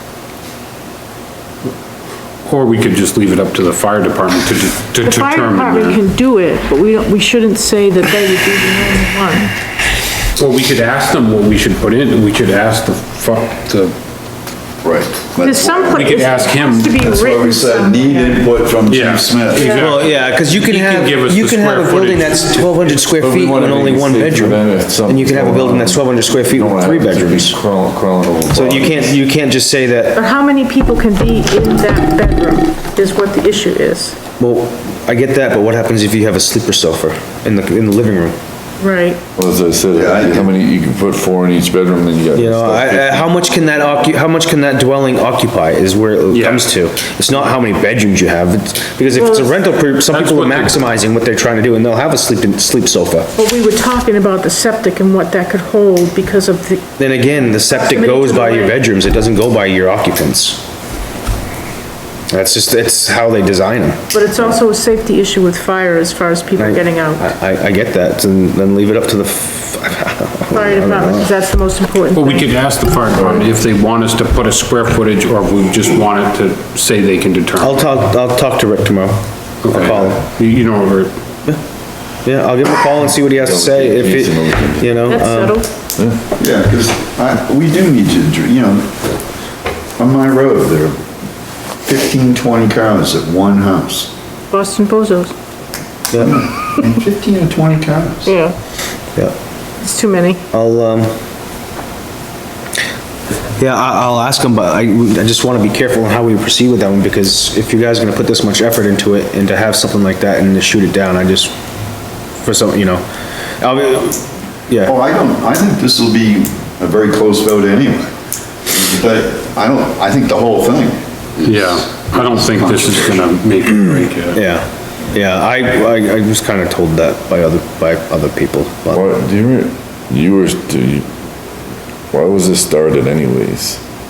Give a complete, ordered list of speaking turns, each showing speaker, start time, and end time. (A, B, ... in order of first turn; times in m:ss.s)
0:02.4-0:06.0 A
0:05.0-0:09.5 B
0:10.4-0:14.0 A
0:14.8-0:16.3 C
0:15.4-0:18.5 B
0:15.9-0:17.0 A
0:17.0-0:19.9 C
0:18.9-0:22.9 A
0:19.5-0:20.0 B
0:19.7-0:27.6 D
0:23.2-0:29.1 E
0:28.5-0:30.2 D
0:30.2-0:34.2 B
0:34.4-0:38.4 D
0:38.8-0:39.2 B
0:39.4-0:43.3 E
0:39.9-0:40.6 C
0:42.3-0:53.3 D
0:46.3-0:46.6 A
0:49.1-0:49.6 B
0:50.1-0:50.8 A
0:53.4-0:56.9 B
0:57.0-1:00.6 D
0:57.5-0:58.8 B
1:02.3-1:04.1 D
1:04.1-1:07.3 B
1:06.6-1:11.3 D
1:10.5-1:12.5 B
1:12.1-1:17.9 A
1:13.2-1:13.5 E
1:17.6-1:20.2 D
1:19.6-1:21.1 A
1:22.2-1:25.6 D
1:23.2-1:25.2 E
1:25.1-1:25.7 B
1:26.0-1:26.2 E
1:26.3-1:29.0 C
1:30.0-1:31.0 C
1:31.8-1:34.1 C
1:34.5-1:35.3 B
1:36.1-1:36.4 D
1:36.1-1:38.3 C
1:38.2-1:38.6 B
1:39.8-1:40.4 B
1:40.5-1:41.1 D
1:43.6-1:51.5 D
1:52.4-1:53.0 D
1:53.6-1:54.9 D
1:54.8-1:58.1 C
1:58.7-2:03.3 C
2:01.4-2:04.4 A
2:04.3-2:09.1 D
2:08.9-2:11.1 E
2:12.1-2:13.8 E